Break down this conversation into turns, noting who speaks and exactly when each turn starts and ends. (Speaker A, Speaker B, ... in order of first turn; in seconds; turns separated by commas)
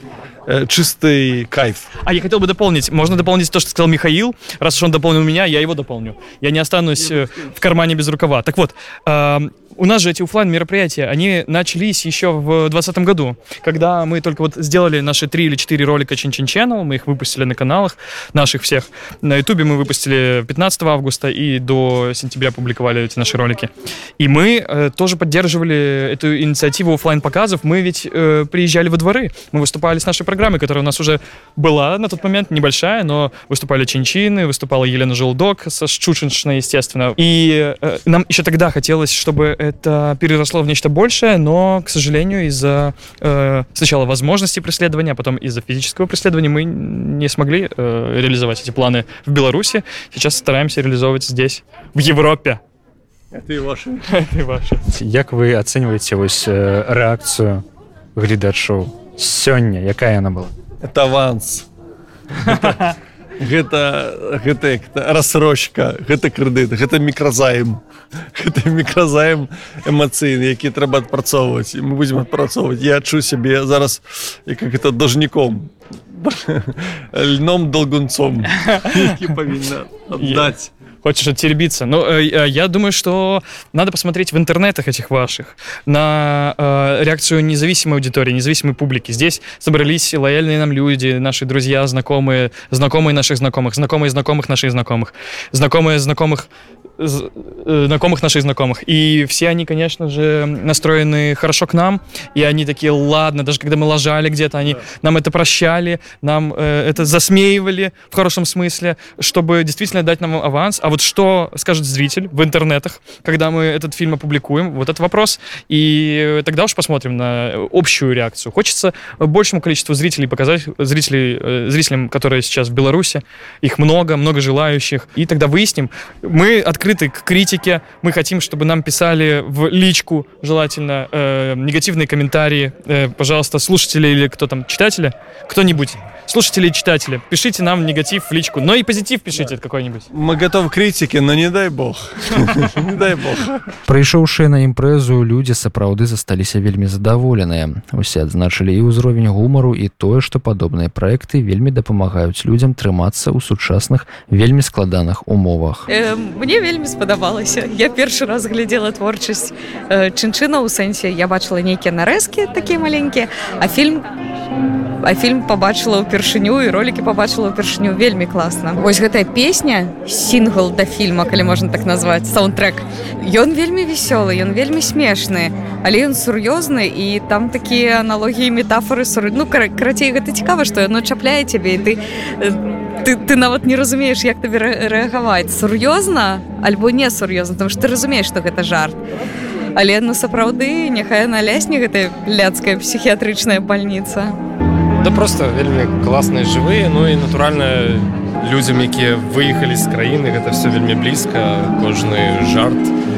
Speaker A: 0.5-1.9, Speaker B: 2.0-52.6, Speaker A: 53.3-54.0, Speaker B: 54.1-54.8, Speaker C: 54.9-57.6, Speaker C: 58.2-60.5, Speaker A: 60.8-61.7, Speaker A: 63.4-67.8, Speaker A: 68.3-80.7, Speaker B: 78.7-79.2, Speaker B: 80.2-96.5, Speaker B: 97.0-140.1, Speaker A: 140.1-143.6, Speaker D: 143.9-155.9, Speaker E: 155.9-164.1, Speaker E: 165.0-189.0, Speaker E: 189.8-194.4, Speaker F: 195.0-202.9